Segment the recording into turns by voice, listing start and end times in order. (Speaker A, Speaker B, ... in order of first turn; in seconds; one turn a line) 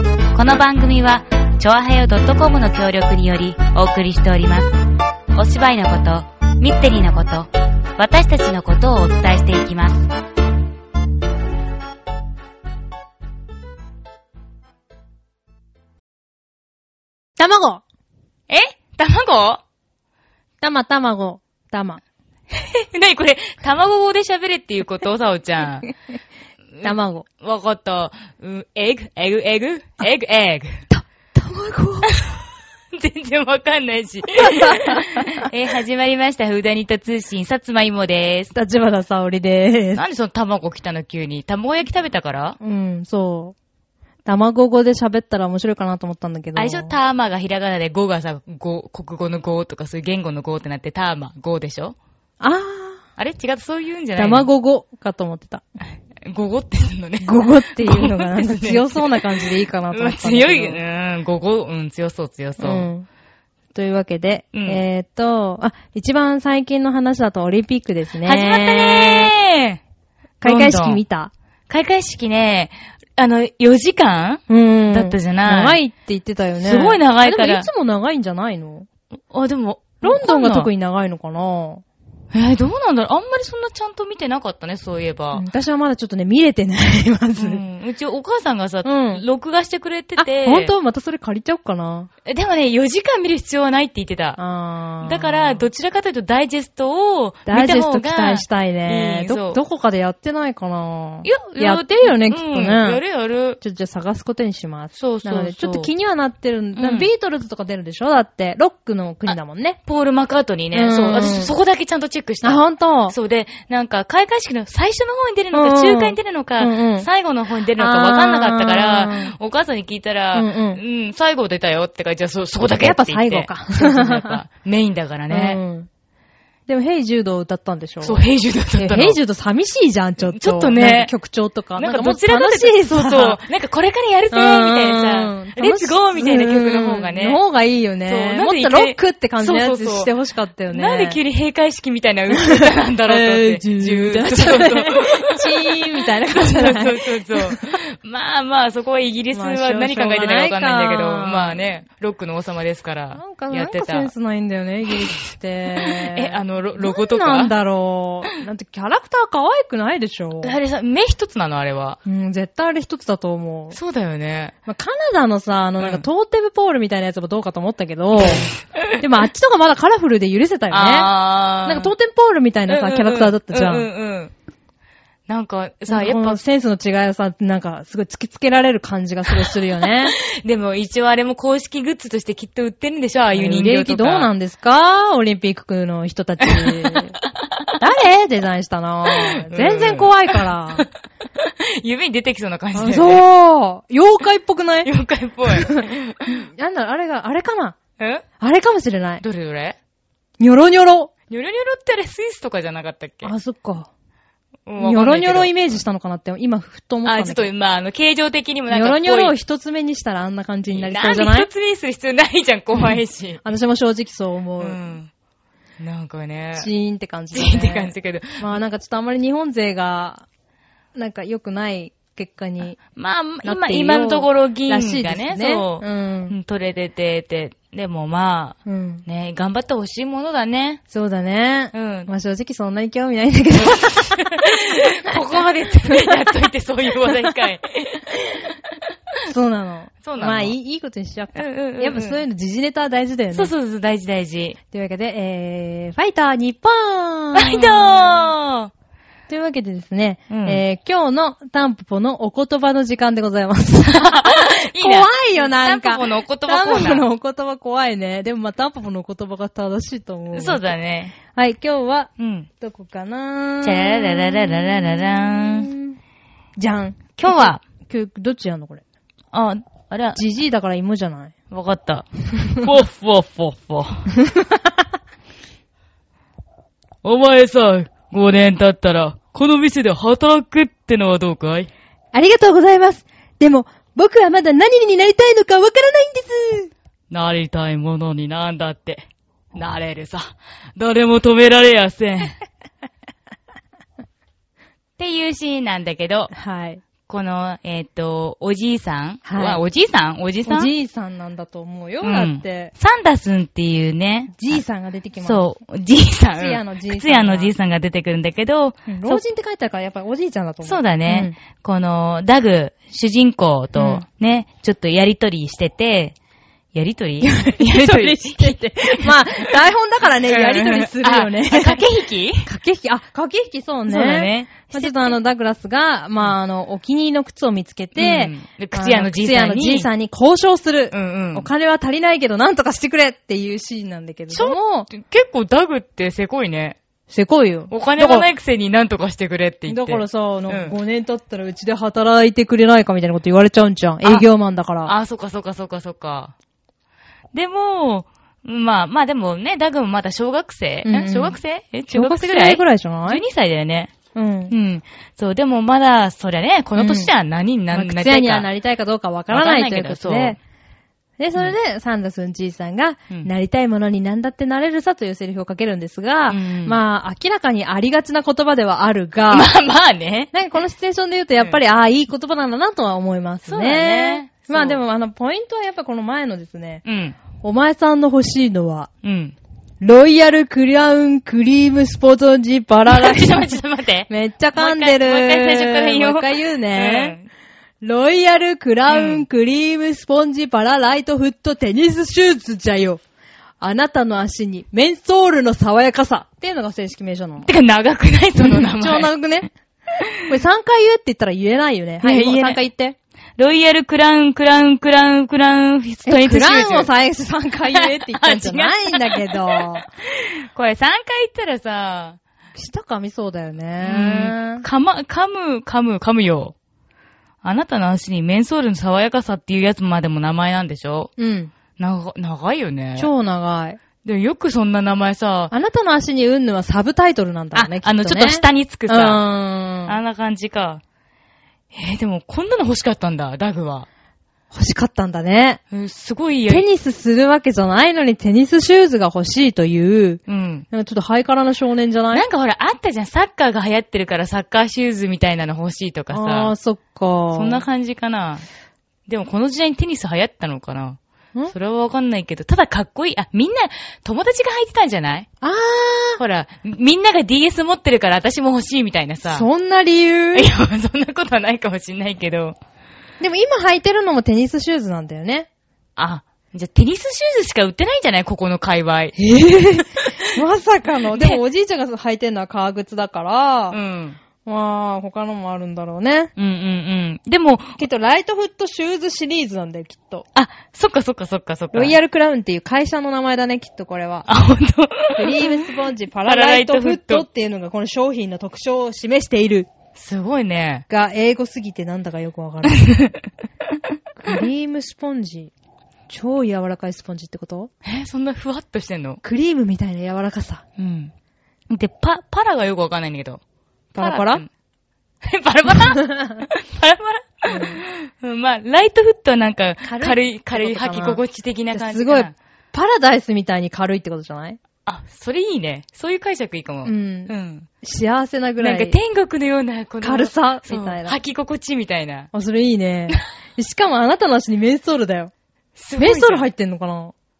Speaker A: 0.3-4.8
Speaker A: 5.3-10.1
Speaker B: 17.4-17.8
Speaker C: 18.5-19.6
Speaker B: 20.6-22.0
Speaker C: 22.5-25.9
Speaker C: 26.8-30.8
Speaker B: 26.8-27.2
Speaker B: 30.9-32.1
Speaker C: 32.1-32.4
Speaker C: 32.9-38.5
Speaker B: 34.4-35.4
Speaker B: 38.5-40.0
Speaker C: 39.9-42.6
Speaker B: 42.6-43.5
Speaker B: 44.2-46.9
Speaker C: 46.5-52.0
Speaker B: 52.4-53.0
Speaker C: 53.2-54.5
Speaker B: 54.1-55.6
Speaker C: 56.2-59.2
Speaker B: 57.2-60.8
Speaker C: 59.9-62.9
Speaker B: 62.6-63.1
Speaker B: 63.7-69.3
Speaker C: 64.5-64.8
Speaker C: 68.2-69.8
Speaker B: 70.4-71.3
Speaker C: 70.4-71.0
Speaker C: 71.7-75.8
Speaker B: 74.5-78.9
Speaker C: 76.6-77.7
Speaker C: 79.3-80.7
Speaker B: 80.0-81.8
Speaker C: 82.3-85.4
Speaker B: 85.3-87.6
Speaker C: 87.4-90.7
Speaker B: 88.8-89.2
Speaker B: 90.2-92.1
Speaker C: 92.2-94.4
Speaker B: 94.4-95.6
Speaker C: 95.0-99.6
Speaker B: 97.5-103.0
Speaker C: 101.2-103.6
Speaker B: 103.6-109.8
Speaker C: 105.0-105.9
Speaker C: 106.8-107.1
Speaker C: 109.8-125.6
Speaker B: 110.7-111.5
Speaker B: 112.4-113.1
Speaker B: 115.5-117.1
Speaker B: 117.8-119.3
Speaker B: 120.3-120.8
Speaker B: 122.8-124.4
Speaker B: 125.3-125.9
Speaker B: 126.7-128.2
Speaker C: 128.0-129.2
Speaker B: 128.8-133.4
Speaker C: 130.2-131.1
Speaker C: 131.8-137.4
Speaker B: 134.3-141.2
Speaker C: 138.1-140.1
Speaker C: 140.7-154.1
Speaker B: 142.4-147.6
Speaker B: 149.3-151.7
Speaker B: 153.1-160.5
Speaker C: 155.8-157.5
Speaker C: 160.4-162.0
Speaker B: 162.0-163.8
Speaker C: 163.7-164.5
Speaker B: 164.6-171.1
Speaker C: 168.2-168.9
Speaker C: 170.7-171.9
Speaker B: 171.6-173.9
Speaker C: 172.7-174.3
Speaker C: 175.3-176.4
Speaker B: 175.9-180.2
Speaker C: 180.1-184.3
Speaker B: 183.3-187.1
Speaker B: 187.8-190.8
Speaker C: 189.3-190.9
Speaker C: 191.4-193.2
Speaker B: 192.7-194.9
Speaker C: 194.8-196.4
Speaker B: 195.4-197.8
Speaker C: 198.0-198.2
Speaker B: 198.4-199.2
Speaker C: 199.2-199.8
Speaker B: 200.4-201.1
Speaker C: 201.3-203.3
Speaker B: 203.2-203.9
Speaker C: 204.7-205.5
Speaker B: 204.8-207.5
Speaker C: 207.0-209.3
Speaker B: 208.7-211.5
Speaker C: 210.7-213.4
Speaker B: 213.4-214.8
Speaker C: 214.6-215.1
Speaker C: 215.8-216.7
Speaker B: 216.6-220.2
Speaker C: 217.3-218.5
Speaker B: 220.9-222.8
Speaker C: 222.9-230.8
Speaker B: 223.4-226.3
Speaker B: 228.6-229.0
Speaker B: 230.9-234.2
Speaker C: 231.7-232.1
Speaker C: 233.6-238.1
Speaker B: 235.8-236.1
Speaker B: 239.3-243.5
Speaker C: 240.0-240.5
Speaker C: 241.3-242.2
Speaker C: 243.3-244.6
Speaker B: 244.7-248.3
Speaker C: 247.3-248.7
Speaker B: 249.3-260.6
Speaker C: 250.3-250.6
Speaker C: 253.9-257.1
Speaker C: 260.3-261.1
Speaker B: 261.2-266.0
Speaker C: 262.2-262.5
Speaker C: 263.6-265.7
Speaker B: 266.6-268.8
Speaker C: 267.2-267.6
Speaker C: 269.3-270.2
Speaker B: 270.1-271.3
Speaker C: 271.5-274.1
Speaker B: 274.2-274.9
Speaker C: 277.0-281.7
Speaker B: 282.1-286.7
Speaker C: 287.1-292.4
Speaker C: 295.0-296.3
Speaker B: 296.3-296.8
Speaker C: 297.1-300.7
Speaker B: 299.2-299.6
Speaker B: 300.4-302.7
Speaker C: 302.0-304.6
Speaker B: 304.3-305.4
Speaker C: 305.2-309.2
Speaker B: 306.4-307.5
Speaker B: 308.9-311.4
Speaker C: 310.6-316.1
Speaker B: 313.8-314.0
Speaker C: 316.7-319.5
Speaker B: 317.2-321.8
Speaker C: 320.2-322.5
Speaker B: 322.4-334.9
Speaker C: 323.9-325.1
Speaker C: 327.9-329.9
Speaker C: 330.9-331.5
Speaker C: 334.3-336.8
Speaker B: 337.1-338.3
Speaker C: 337.7-340.8
Speaker B: 339.7-344.9
Speaker C: 344.8-346.3
Speaker C: 347.3-353.9
Speaker B: 350.8-351.4
Speaker B: 351.9-353.2
Speaker B: 354.1-354.5
Speaker C: 354.5-358.5
Speaker B: 356.8-357.1
Speaker B: 357.7-360.4
Speaker C: 359.3-360.4
Speaker B: 361.2-369.5
Speaker C: 366.3-366.8
Speaker C: 369.3-370.3
Speaker B: 370.3-376.8
Speaker C: 373.5-374.8
Speaker C: 376.8-377.2
Speaker B: 377.4-378.9
Speaker C: 379.0-379.4
Speaker B: 379.8-383.5
Speaker C: 382.9-387.3
Speaker B: 384.1-387.2
Speaker B: 387.8-393.0
Speaker C: 388.9-389.2
Speaker B: 393.6-397.5
Speaker C: 397.4-399.1
Speaker B: 398.4-399.5
Speaker B: 400.2-402.9
Speaker C: 402.0-402.6
Speaker C: 403.4-406.9
Speaker B: 406.1-409.9
Speaker C: 407.7-409.6
Speaker C: 410.2-412.2
Speaker B: 412.5-414.6
Speaker C: 413.8-416.5
Speaker C: 417.4-421.1
Speaker B: 421.2-421.5
Speaker C: 421.8-423.1
Speaker B: 423.0-423.8
Speaker C: 424.0-425.5
Speaker B: 425.5-430.0
Speaker C: 427.5-429.2
Speaker C: 429.9-430.8
Speaker C: 431.7-433.9
Speaker B: 434.5-435.6
Speaker C: 435.7-436.7
Speaker B: 436.5-442.2
Speaker C: 440.3-440.6
Speaker C: 442.1-446.5
Speaker B: 446.1-447.6
Speaker C: 447.3-448.4
Speaker C: 449.1-451.0
Speaker C: 451.5-455.3
Speaker B: 455.4-456.2
Speaker C: 456.2-459.4
Speaker B: 459.3-460.5
Speaker C: 460.3-462.6
Speaker B: 463.2-465.5
Speaker C: 466.0-469.1
Speaker B: 469.2-473.8
Speaker C: 471.1-471.4
Speaker C: 473.7-474.2
Speaker B: 474.4-476.3
Speaker C: 476.4-477.8
Speaker B: 477.8-480.2
Speaker C: 480.3-481.9
Speaker B: 481.7-484.3
Speaker C: 484.3-485.7
Speaker B: 485.2-489.7
Speaker C: 486.2-487.2
Speaker C: 489.9-490.8
Speaker B: 490.9-492.9
Speaker C: 492.8-493.2
Speaker B: 494.2-495.5
Speaker B: 496.1-497.7
Speaker C: 497.8-499.2
Speaker B: 499.2-500.6
Speaker C: 500.8-501.1
Speaker C: 501.7-503.4
Speaker B: 503.9-504.4
Speaker C: 503.9-504.5
Speaker C: 505.2-512.3
Speaker B: 506.1-506.4
Speaker B: 507.5-507.8
Speaker B: 509.8-511.2
Speaker B: 511.7-514.6
Speaker C: 514.8-517.7
Speaker B: 516.8-519.0
Speaker C: 518.6-522.3
Speaker B: 520.0-521.2
Speaker B: 522.3-525.3
Speaker C: 525.8-526.5
Speaker B: 526.0-527.1